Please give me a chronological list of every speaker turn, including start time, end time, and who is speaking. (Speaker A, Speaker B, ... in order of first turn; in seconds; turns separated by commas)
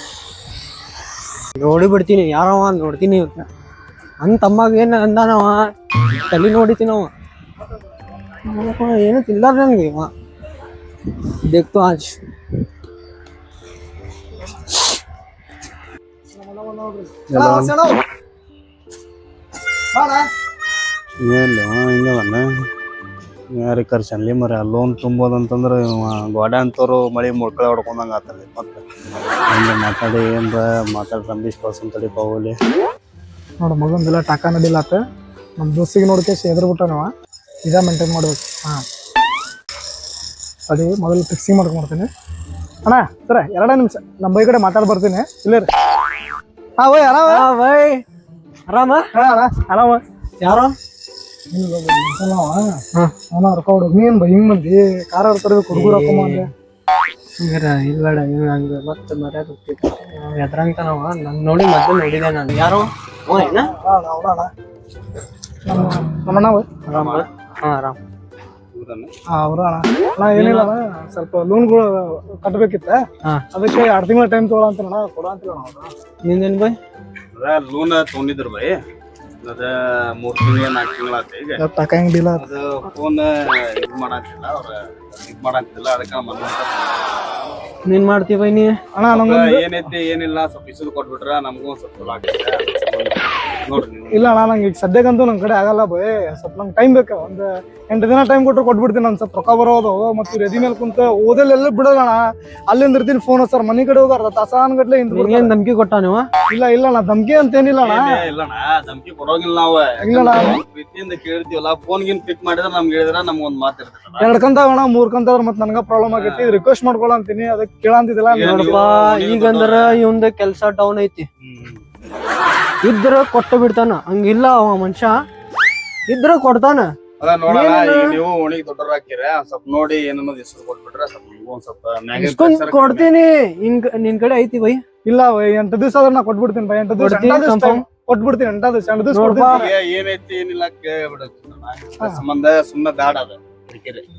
Speaker A: 1.6-3.5, Speaker A: 4.2-5.7, Speaker A: 6.3-7.1, Speaker A: 8.5-10.1, Speaker A: 11.4-12.2, Speaker B: 16.3-18.0, Speaker C: 17.3-17.7, Speaker B: 19.9-20.3, Speaker C: 21.2-22.5, Speaker C: 23.5-28.8, Speaker C: 29.5-32.5, Speaker B: 33.6-35.0, Speaker B: 35.6-37.1, Speaker B: 37.7-38.8, Speaker B: 40.7-42.1, Speaker B: 42.9-45.7, Speaker B: 46.8-47.5, Speaker A: 47.3-48.0, Speaker A: 48.7-49.0, Speaker B: 49.1-50.0, Speaker A: 50.4-50.8, Speaker B: 51.5-52.8, Speaker B: 53.3-56.5, Speaker A: 55.7-56.5, Speaker A: 57.4-63.7, Speaker B: 63.5-64.5, Speaker B: 65.7-66.8, Speaker A: 66.9-68.0, Speaker C: 66.9-67.2, Speaker C: 68.7-69.1, Speaker B: 69.3-73.0, Speaker A: 70.3-70.7, Speaker B: 73.5-75.9, Speaker A: 76.2-76.8, Speaker C: 77.3-78.8, Speaker C: 79.4-81.6, Speaker B: 81.6-82.5, Speaker C: 82.4-87.0, Speaker A: 87.8-88.8, Speaker B: 89.0-89.7, Speaker C: 89.1-94.3, Speaker B: 94.1-105.5, Speaker A: 105.1-106.3, Speaker B: 106.5-108.2, Speaker C: 107.8-114.3, Speaker B: 110.0-110.6, Speaker B: 114.2-118.8, Speaker C: 116.1-116.6, Speaker C: 118.3-120.0, Speaker A: 118.4-121.3, Speaker C: 121.4-121.8, Speaker A: 122.8-125.2, Speaker A: 126.1-126.9, Speaker C: 127.2-133.1, Speaker A: 127.5-128.2, Speaker A: 132.2-134.8, Speaker B: 135.1-139.7, Speaker A: 137.0-137.8, Speaker A: 139.1-139.7, Speaker C: 139.4-144.0